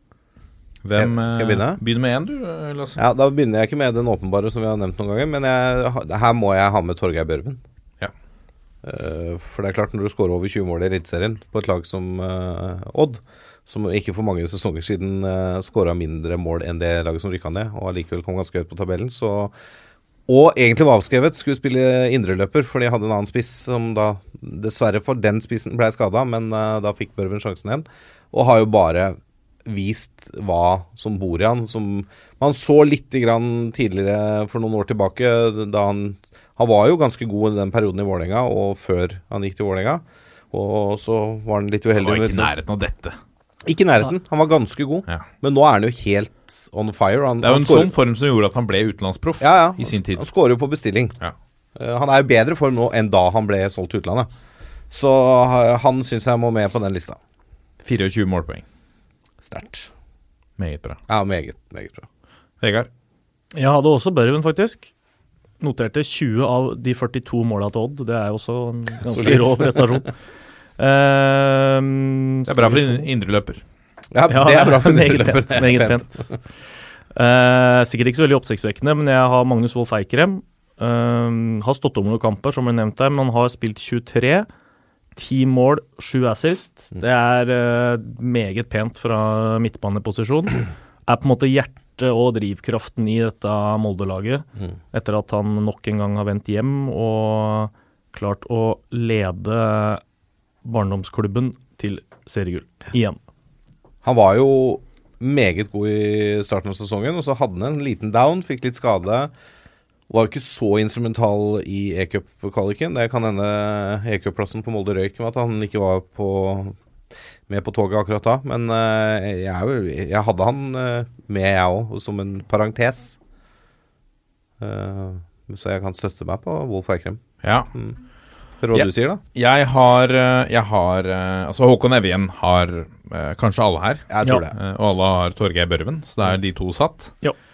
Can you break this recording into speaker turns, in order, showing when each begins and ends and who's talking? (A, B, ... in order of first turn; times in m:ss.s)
0:00.8-0:03.0 A
0:00.9-0:01.8 B
0:03.0-0:07.6 B
0:08.8-0:19.5 B
0:20.3-0:42.5 B
0:42.0-0:43.2 A
0:43.6-0:47.9 B
0:47.4-0:50.2 A
0:49.4-0:51.1 B
0:51.8-0:54.3 B
0:54.9-0:57.2 B
0:57.8-0:58.6 A
0:59.4-0:59.9 B
1:00.6-1:01.0 A
1:01.1-1:02.1 B
1:02.6-1:02.9 A
1:03.5-1:04.9 C
1:05.6-1:10.1 C
1:09.0-1:09.8 B
1:10.8-1:13.0 C
1:12.5-1:13.6 A
1:14.1-1:16.2 B
1:14.3-1:16.2 C
1:17.1-1:24.5 C
1:25.2-1:40.0 C
1:40.6-1:43.2 C
1:44.0-1:49.3 B
1:50.1-1:56.8 B
1:57.5-2:03.2 B
2:04.6-2:07.2 B
2:07.4-2:07.7 A
2:08.6-2:09.2 B
2:08.7-2:17.2 A
2:14.1-2:14.5 B